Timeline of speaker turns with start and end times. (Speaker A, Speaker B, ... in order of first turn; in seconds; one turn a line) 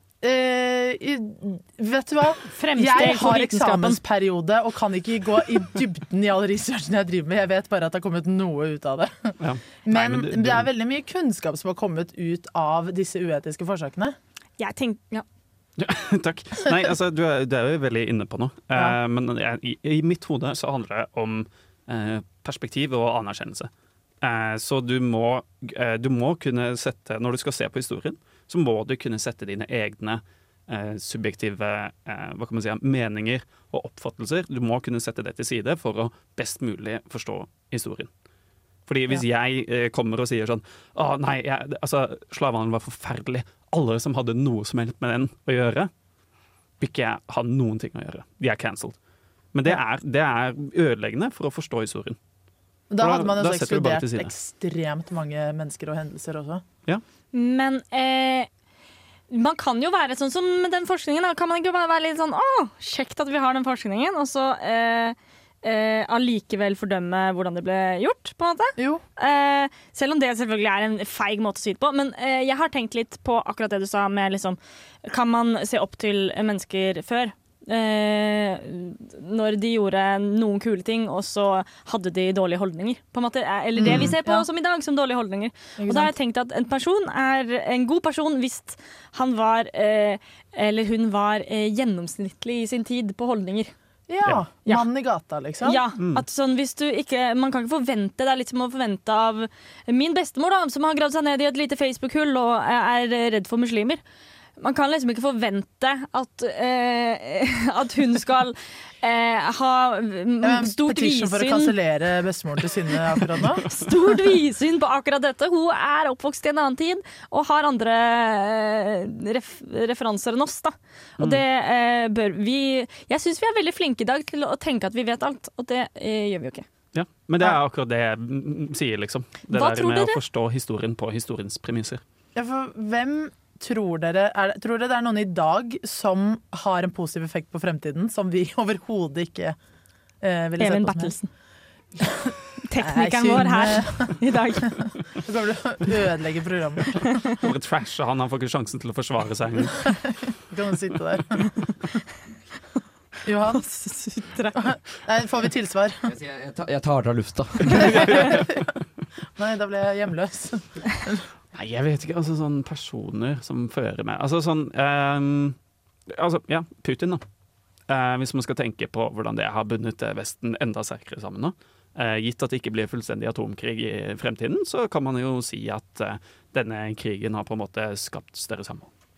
Speaker A: 0.2-14.2
Speaker B: 2.5-4.0
Speaker C: 9.4-10.7
Speaker B: 14.6-15.2
Speaker C: 15.8-23.7
Speaker C: 24.2-38.1
Speaker C: 38.9-45.9
Speaker C: 46.8-49.0
Speaker C: 49.5-52.2
Speaker A: 52.9-56.6
Speaker C: 53.0-54.3
Speaker B: 57.3-58.5
Speaker B: 59.3-93.7
Speaker A: 68.8-69.0
Speaker A: 83.8-84.5
Speaker C: 83.8-84.1
Speaker A: 85.8-86.1
Speaker A: 94.1-95.8
Speaker B: 95.6-104.0
Speaker C: 96.0-96.2
Speaker B: 104.6-111.7
Speaker A: 110.4-113.7
Speaker B: 113.7-126.6
Speaker C: 126.9-132.0
Speaker B: 129.5-130.2
Speaker A: 132.3-139.6
Speaker A: 140.2-141.2
Speaker B: 140.6-141.3
Speaker A: 142.0-147.2
Speaker B: 142.7-144.8
Speaker C: 147.4-149.9
Speaker A: 149.9-151.5
Speaker A: 153.2-153.6
Speaker B: 153.5-154.7
Speaker A: 154.6-156.1
Speaker D: 156.1-158.2
Speaker C: 157.7-158.5
Speaker A: 157.7-158.6
Speaker A: 159.4-161.3
Speaker C: 161.5-165.6
Speaker C: 166.1-167.2
Speaker C: 167.9-178.9